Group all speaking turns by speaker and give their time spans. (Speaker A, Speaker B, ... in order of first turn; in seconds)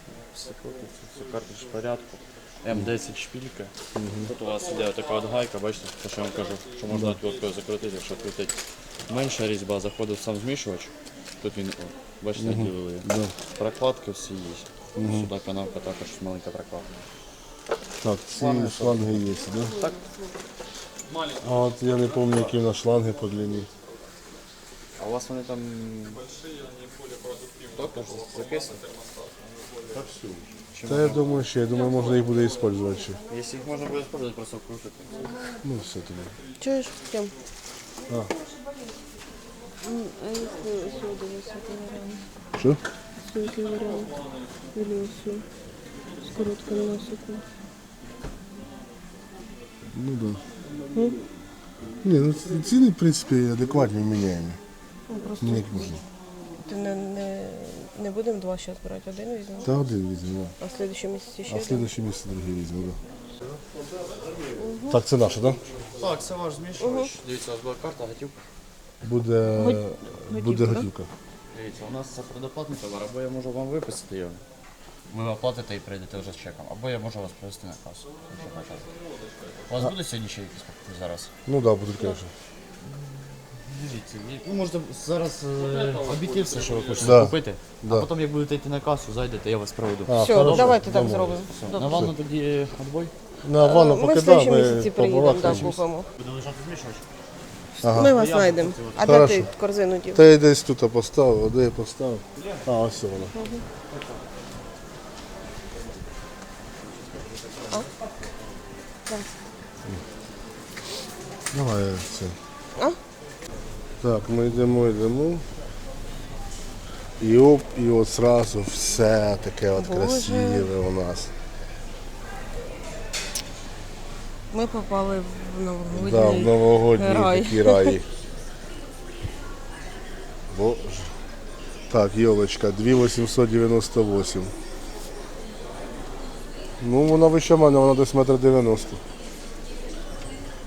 Speaker A: 0.2-16.9, 18.3-20.0, 25.0-26.2, 27.7-28.9, 29.9-31.4, 33.3-35.4, 66.0-68.5, 71.5-74.4, 75.1-78.9, 79.7-81.3, 82.8-90.8, 91.6-93.1, 95.2-97.0, 97.9-99.4, 102.4-102.6
Speaker B: 4.0-4.3, 6.9-7.2, 12.4-13.3, 15.0-15.3, 18.0-19.8, 21.4-23.7, 30.9-33.2, 35.6-36.4, 49.9-50.4, 52.0-54.6, 55.4-56.0, 59.6-60.5, 61.5-63.0, 64.9-65.6, 69.0-71.1, 81.5-82.3, 87.0-88.1, 90.1-91.4, 93.4-95.7, 97.8-98.2, 99.0-99.5, 100.1-103.3, 111.5-112.4, 114.0-115.4, 117.2-121.3, 125.9-128.0, 130.5-131.1, 131.9-134.5, 136.8-139.0
Speaker C: 36.6-37.3, 39.8-42.2, 43.2-44.2, 44.7-45.5, 46.3-47.4, 50.9-51.2, 55.1-56.0, 56.6-59.7, 60.6-61.9, 64.6-65.0, 66.8-67.1, 69.6-70.9, 90.2-92.1, 93.6-96.1, 97.8-100.2, 103.3-103.6, 109.1-109.4, 119.8-120.7, 124.5-128.0